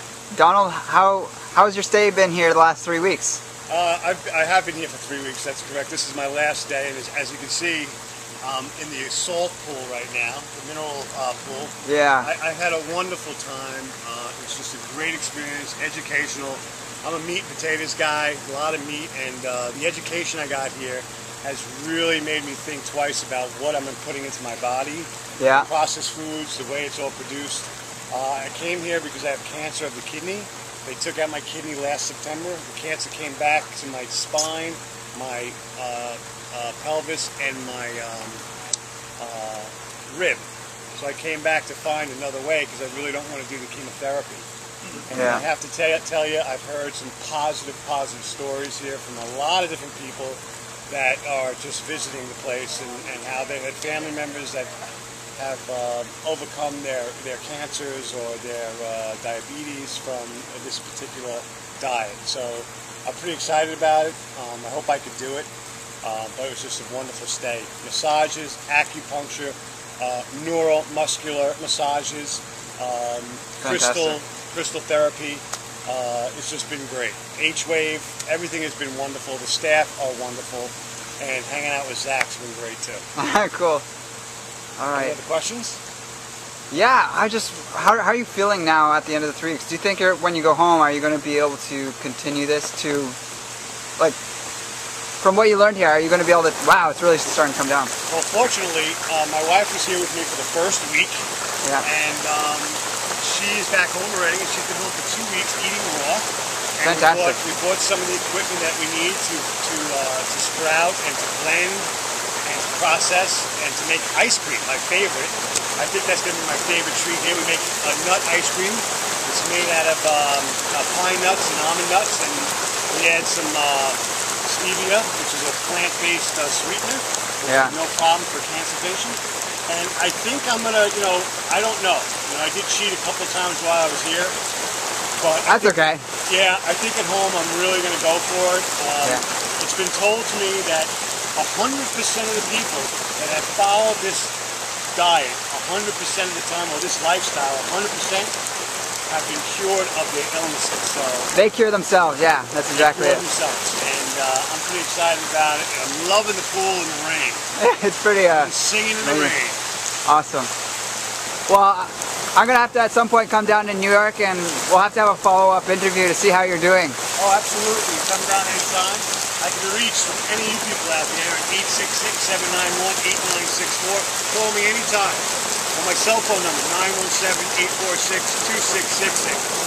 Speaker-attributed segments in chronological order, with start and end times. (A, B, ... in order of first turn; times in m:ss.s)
0:00.3-0:03.4 A
0:03.7-0:38.4 B
0:11.8-0:12.3 A
0:25.4-0:25.7 A
0:39.2-0:44.4 B
0:45.0-0:54.7 B
0:45.1-0:45.5 A
0:55.4-1:05.5 B
1:06.0-1:23.0 B
1:13.6-1:14.2 A
1:23.2-1:23.8 A
1:24.8-1:25.2 A
1:24.9-1:25.8 B
1:26.7-1:33.2 A
1:35.2-1:37.9 A
1:38.1-1:41.3 B
1:41.8-1:51.9 B
1:46.8-1:47.4 A
1:52.4-2:14.4 B
2:07.4-2:07.8 A
2:15.2-2:24.3 B
2:15.4-2:16.0 A
2:24.9-2:28.3 B
2:29.1-2:31.3 B
2:31.3-2:33.2 A
2:32.7-2:37.4 B
2:37.6-2:39.4 A
2:38.2-2:39.6 B
2:40.0-2:40.5 A
2:41.5-2:47.0 A
2:47.2-2:59.4 B